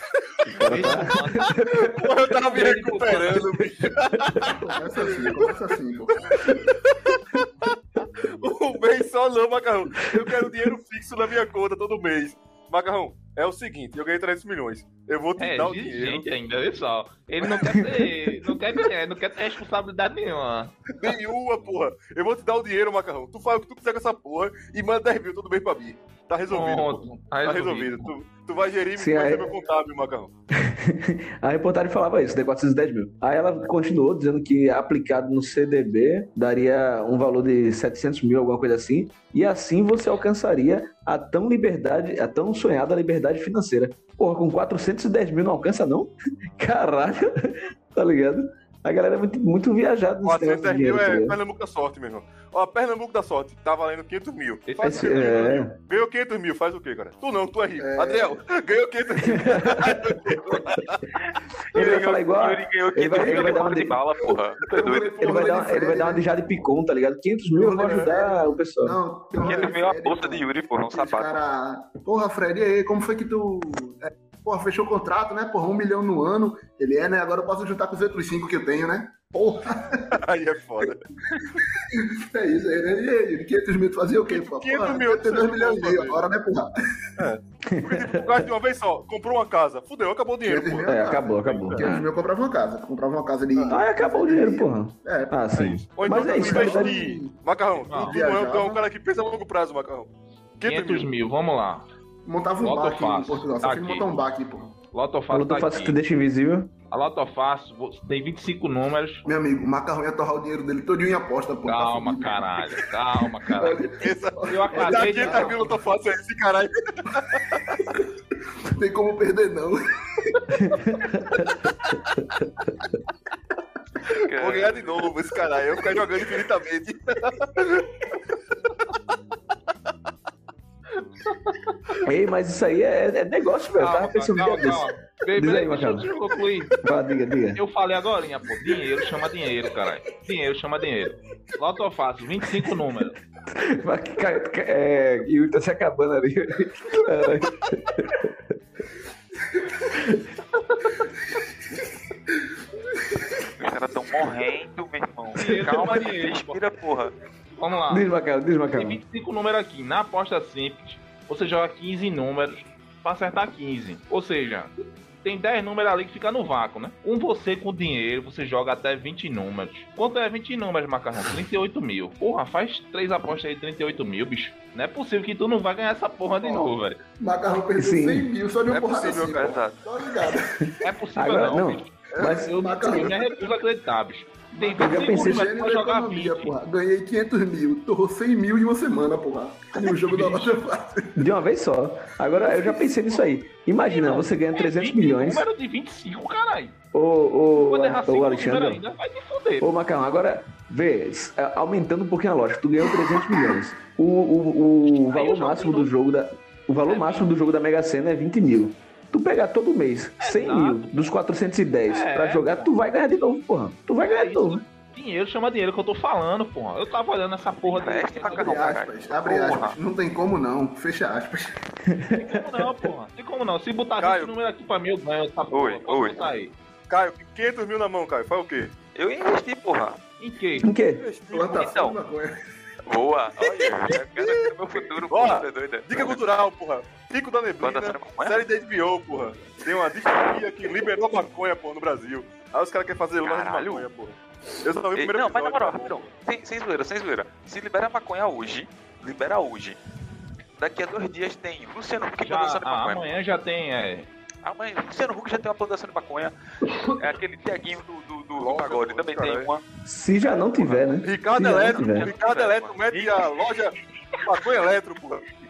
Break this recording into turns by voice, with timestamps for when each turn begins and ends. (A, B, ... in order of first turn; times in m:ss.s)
0:00.1-0:16.3 A
0:00.4-0:02.6 B
0:00.6-0:01.6 C
0:02.5-0:03.5 C
0:04.4-0:06.5 D
0:15.4-0:20.7 C
0:21.0-0:30.3 A
0:26.5-0:28.1 C
0:29.0-0:29.5 B
0:30.5-0:51.4 B
0:50.2-1:01.0 A
0:54.7-0:55.6 C
0:54.8-0:55.7 B
0:57.8-0:58.4 D
0:59.2-1:00.6 B
1:01.2-1:05.6 E
1:01.7-1:04.0 B
1:03.1-1:03.8 D
1:04.6-1:06.3 D
1:05.2-1:09.0 B
1:07.6-1:20.2 D
1:07.8-1:08.1 A
1:09.4-1:11.3 E
1:20.1-1:21.4 A
1:21.4-1:26.7 D
1:24.3-1:26.2 A
1:27.2-1:31.8 A
1:27.7-1:28.4 B
1:30.4-1:37.3 D
1:30.8-1:32.1 B
1:33.7-1:37.0 B
1:36.0-1:41.1 A
1:37.9-1:38.2 C
1:38.1-1:38.8 D
1:40.6-1:41.8 C
1:42.2-1:44.7 D
1:42.6-1:44.1 C
1:44.9-1:46.0 C
1:45.3-1:46.7 B
1:46.9-1:49.2 C
1:49.2-1:52.8 D
1:51.6-1:53.9 C
1:53.5-1:55.7 D
1:54.0-1:57.8 A
1:54.5-1:55.8 C
1:57.7-1:58.1 D
1:58.7-2:01.2 D
2:00.8-2:01.4 B
2:04.1-2:05.0 E
2:04.3-2:08.1 A
2:11.2-2:11.7 C
2:12.0-2:16.1 B
2:13.8-2:16.8 C
2:16.8-2:17.6 B
2:17.5-2:23.2 C
2:23.5-2:28.3 B
2:29.9-2:30.3 B
2:33.6-2:37.1 E
2:35.3-2:36.6 C
2:35.4-2:35.7 B
2:37.6-2:38.0 C
2:37.9-2:39.0 B
2:38.7-2:57.0 C
2:57.2-3:00.7 D
2:57.8-2:58.3 B
2:58.7-2:59.8 E
3:00.6-3:03.1 B
3:00.8-3:06.5 C
3:02.2-3:03.3 D
3:04.5-3:11.2 D
3:04.8-3:05.5 B
3:09.9-3:10.6 C
3:11.2-3:15.4 B
3:12.3-3:12.9 D
3:13.8-3:16.7 C
3:16.9-3:18.8 B
3:17.5-3:19.7 C
3:19.6-3:34.6 B
3:23.0-3:23.6 D
3:24.8-3:25.9 C
3:26.8-3:27.3 C
3:30.2-3:31.1 C
3:31.9-3:32.7 C
3:34.0-3:38.8 C
3:37.6-3:39.8 E
3:38.2-3:41.6 D
3:41.9-3:42.9 B
3:42.1-3:46.5 C
3:44.0-3:44.3 A
3:45.5-3:46.3 E
3:46.9-3:48.7 A
3:48.9-3:50.0 E
3:50.2-3:50.7 C
3:50.6-3:51.0 B
3:51.0-3:51.7 A
3:51.3-3:52.3 D
3:51.5-3:52.0 E
3:52.8-3:56.2 E
3:53.4-4:06.1 A
3:57.6-3:58.4 E
4:03.2-4:03.9 E
4:04.9-4:09.8 E
4:10.6-4:13.1 E
4:12.2-4:14.1 C
4:14.4-4:19.6 E
4:18.4-4:19.5 A
4:19.8-4:22.1 B
4:20.3-4:20.9 E
4:21.0-4:25.2 A
4:21.7-4:23.2 E